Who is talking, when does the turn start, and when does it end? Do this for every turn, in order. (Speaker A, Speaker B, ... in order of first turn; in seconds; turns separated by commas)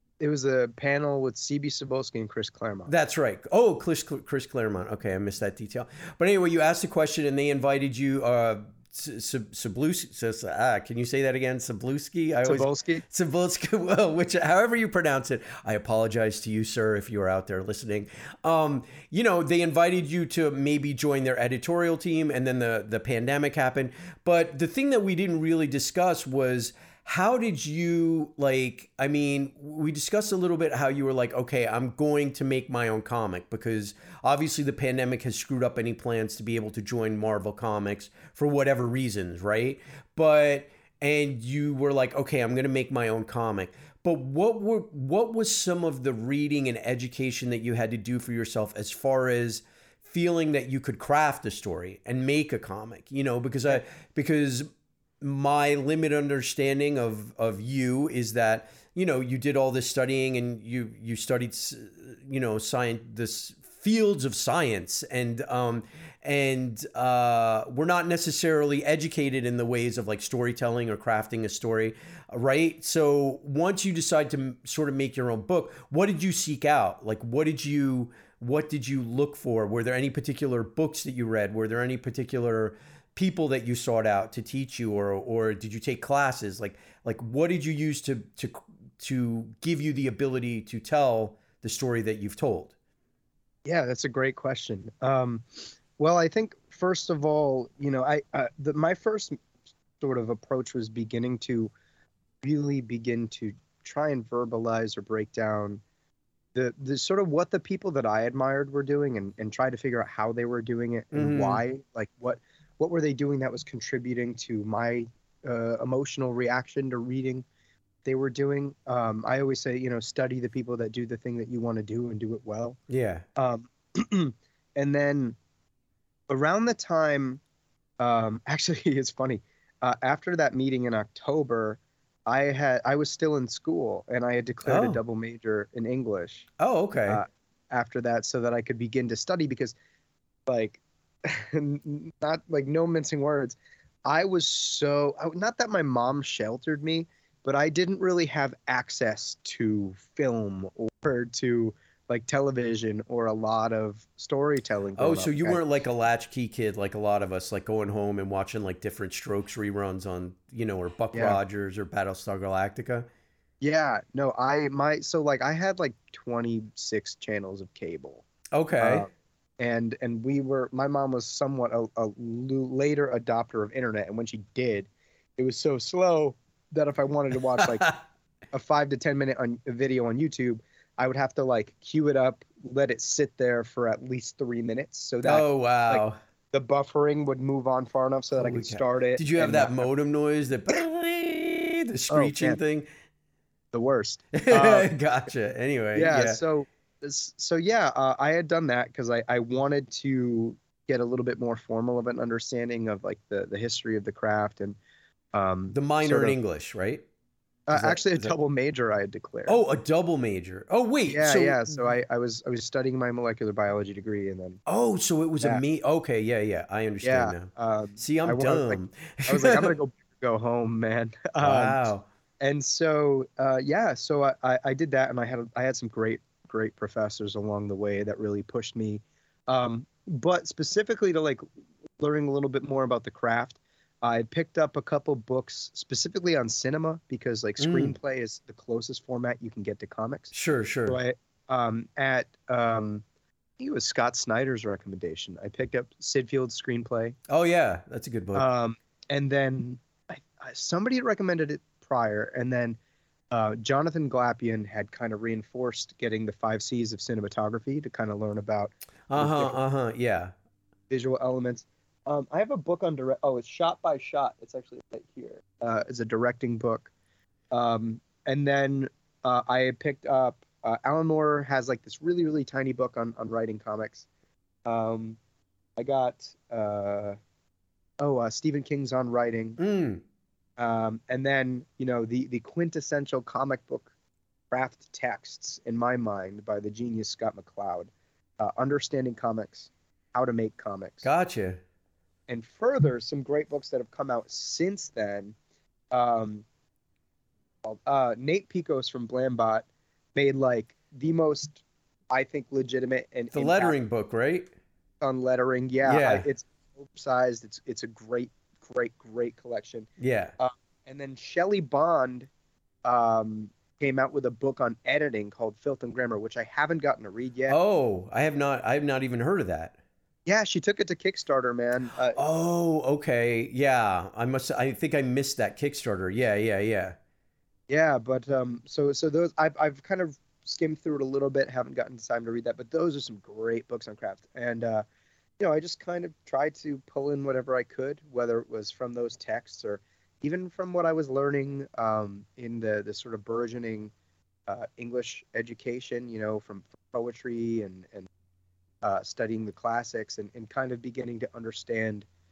Speaker A: 0.2-2.9, Speaker B: 2.9-54.7, Speaker A: 12.4-13.0, Speaker B: 55.2-92.7, Speaker A: 93.6-99.4, Speaker A: 100.0-101.7, Speaker A: 102.4-105.8, Speaker A: 106.5-117.4, Speaker B: 111.1-111.6, Speaker A: 118.0-122.8, Speaker B: 122.9-123.2, Speaker A: 123.3-125.3, Speaker A: 126.3-127.4, Speaker A: 128.0-136.5, Speaker B: 134.6-135.0, Speaker B: 136.6-137.2, Speaker A: 137.1-139.7, Speaker A: 140.4-155.6, Speaker B: 155.0-163.1, Speaker A: 161.1-161.4, Speaker A: 163.6-168.2, Speaker B: 168.5-169.1, Speaker A: 168.8-177.9, Speaker B: 177.6-178.0, Speaker A: 178.5-189.8, Speaker B: 185.2-186.2, Speaker B: 188.3-192.9, Speaker A: 192.1-192.6, Speaker A: 193.7-195.0, Speaker B: 194.3-196.4, Speaker A: 195.9-204.8, Speaker A: 205.3-206.3, Speaker B: 205.7-207.0, Speaker A: 207.7-209.6, Speaker B: 207.7-208.3, Speaker B: 209.4-211.9, Speaker A: 211.1-214.6, Speaker B: 214.7-219.7, Speaker A: 217.0-221.8, Speaker B: 221.4-222.0, Speaker A: 222.4-231.4, Speaker A: 232.0-240.3, Speaker B: 237.6-237.9, Speaker B: 240.3-241.0, Speaker A: 240.9-243.0, Speaker A: 243.6-247.1, Speaker B: 247.3-248.5, Speaker A: 248.3-252.8, Speaker A: 253.3-259.6, Speaker B: 259.1-260.3, Speaker A: 260.9-266.9, Speaker A: 267.5-274.1, Speaker A: 274.6-275.2, Speaker A: 275.8-277.2, Speaker A: 278.0-279.6, Speaker B: 279.6-280.0, Speaker A: 280.6-283.9, Speaker A: 284.5-291.1, Speaker B: 291.0-291.6, Speaker A: 292.3-295.3, Speaker A: 295.9-296.4, Speaker A: 297.6-303.8, Speaker B: 303.3-304.5, Speaker A: 305.0-312.3, Speaker B: 305.8-306.2, Speaker B: 310.0-310.4, Speaker A: 312.8-317.6, Speaker B: 317.5-319.8, Speaker A: 320.2-322.2, Speaker B: 322.1-327.0, Speaker A: 327.7-334.8, Speaker A: 335.4-343.9, Speaker A: 344.5-348.1, Speaker A: 348.8-352.1